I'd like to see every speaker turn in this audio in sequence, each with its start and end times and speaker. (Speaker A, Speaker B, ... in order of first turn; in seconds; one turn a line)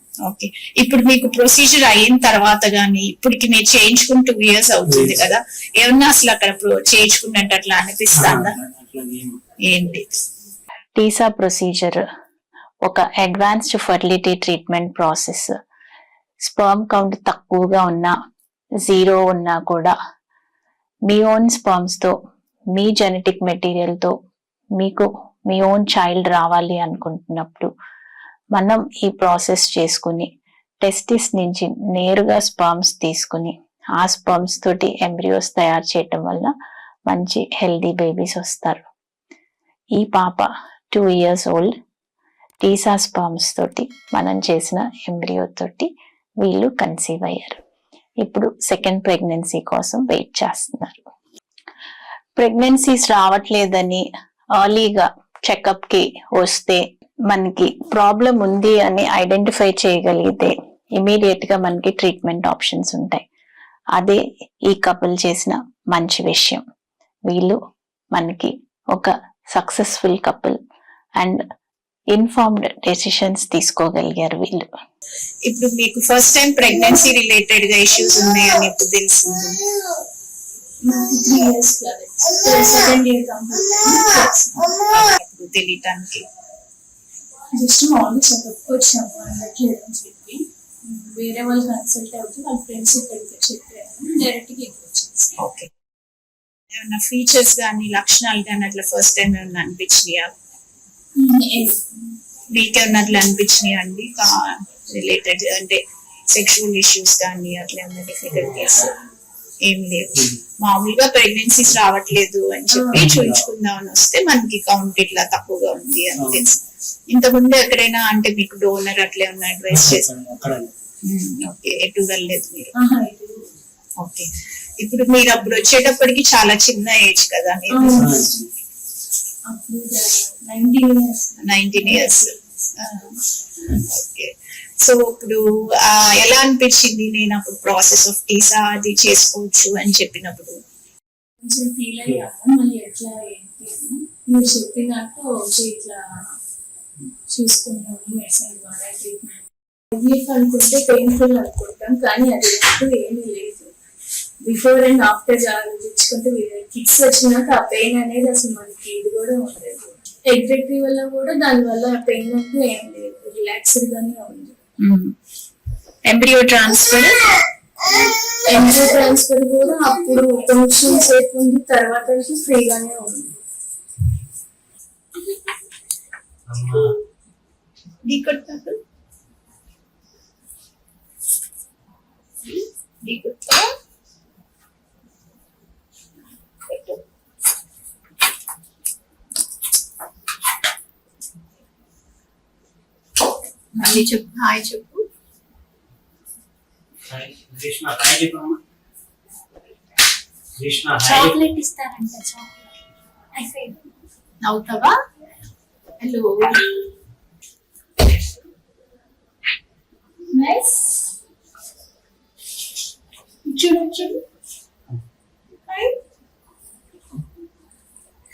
Speaker A: 0.2-8.5
Speaker B: 4.8-5.3
Speaker B: 8.1-9.4
Speaker A: 9.6-10.1
Speaker C: 10.9-12.0
Speaker C: 12.8-15.5
Speaker C: 16.4-18.1
Speaker C: 18.8-19.9
Speaker C: 21.1-22.1
Speaker C: 22.7-24.1
Speaker C: 24.8-27.7
Speaker C: 28.5-30.3
Speaker C: 30.8-36.5
Speaker C: 37.1-38.9
Speaker C: 40.0-41.7
Speaker C: 42.6-45.9
Speaker C: 46.4-47.6
Speaker C: 48.2-51.0
Speaker C: 52.4-54.0
Speaker C: 54.6-63.2
Speaker C: 63.9-66.6
Speaker C: 67.3-67.6
Speaker C: 68.1-70.6
Speaker C: 72.1-74.7
Speaker A: 75.4-79.6
Speaker D: 80.8-84.9
Speaker A: 85.0-86.2
Speaker D: 87.5-95.4
Speaker A: 95.4-95.7
Speaker A: 96.7-100.3
Speaker D: 101.2-102.2
Speaker A: 102.5-108.9
Speaker B: 108.4-108.8
Speaker A: 109.6-116.6
Speaker D: 112.7-113.1
Speaker B: 112.9-113.5
Speaker B: 116.2-116.5
Speaker A: 117.1-120.1
Speaker B: 119.7-120.7
Speaker A: 121.0-122.7
Speaker D: 122.8-123.4
Speaker A: 124.0-124.3
Speaker A: 124.8-128.1
Speaker D: 127.7-128.4
Speaker B: 127.9-128.4
Speaker D: 129.5-132.4
Speaker A: 131.4-140.6
Speaker D: 141.4-146.0
Speaker D: 147.3-153.7
Speaker D: 154.4-164.6
Speaker A: 164.8-165.1
Speaker A: 166.1-167.2
Speaker D: 168.4-173.3
Speaker B: 176.5-176.9
Speaker A: 178.1-178.8
Speaker A: 183.0-183.7
Speaker A: 186.7-187.0
Speaker A: 193.8-195.1
Speaker B: 197.1-198.6
Speaker B: 200.6-201.4
Speaker D: 201.0-202.6
Speaker D: 203.3-203.8
Speaker A: 204.4-205.0
Speaker A: 206.0-206.6
Speaker D: 210.3-211.1
Speaker D: 213.5-214.2
Speaker D: 215.7-215.9